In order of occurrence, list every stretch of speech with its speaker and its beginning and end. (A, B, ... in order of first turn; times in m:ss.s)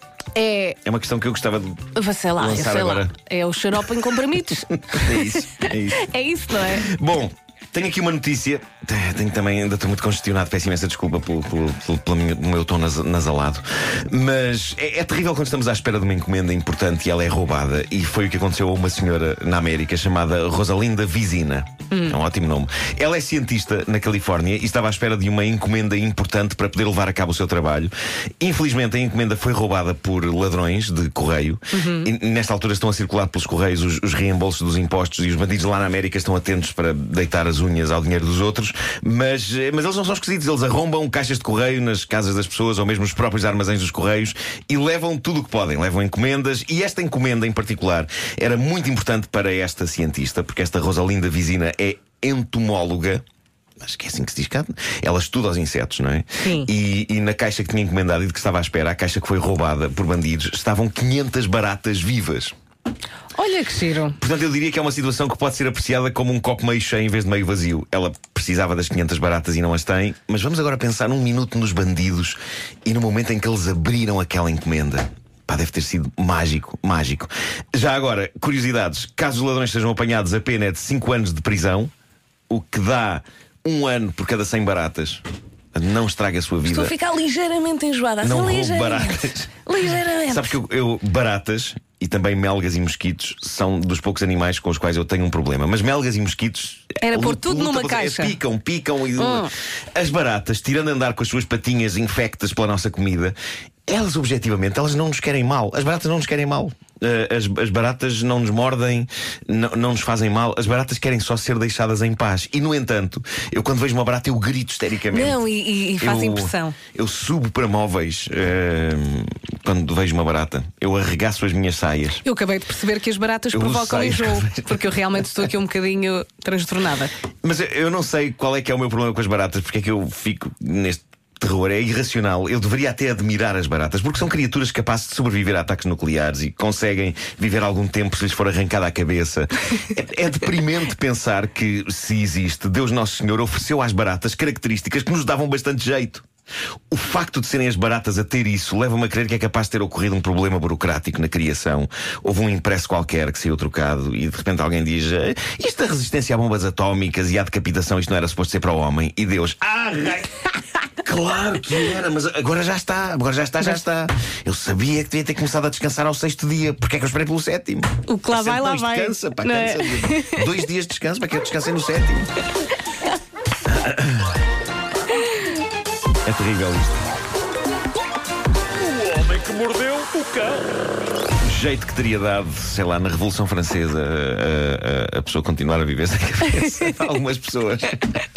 0:00.3-0:00.8 A
0:00.8-0:03.1 B
0:01.9-0:06.9 A
0:04.8-0:06.1 B
0:06.6-0:53.2 B
0:21.9-0:22.2 A
0:31.7-0:32.1 A
0:53.8-1:02.5 B
0:56.4-0:56.7 A
1:03.3-1:04.2 A
1:04.2-1:21.9 B
1:22.5-1:25.2 B
1:25.7-1:26.9 B
1:26.6-1:30.6 A
1:28.2-1:29.5 B
1:30.3-1:43.3 B
1:37.0-1:38.4 A
1:39.2-1:39.5 A
1:43.9-1:55.4 B
1:55.1-1:56.8 A
1:56.0-2:02.2 B
2:02.2-2:07.1 A
2:03.5-2:05.2 B
2:07.4-2:26.2 B
2:26.9-2:52.3 B
2:48.0-2:50.5 A
2:53.6-2:54.4 B
2:56.2-2:57.1 B
2:58.8-3:00.7 C
3:01.4-3:08.1 B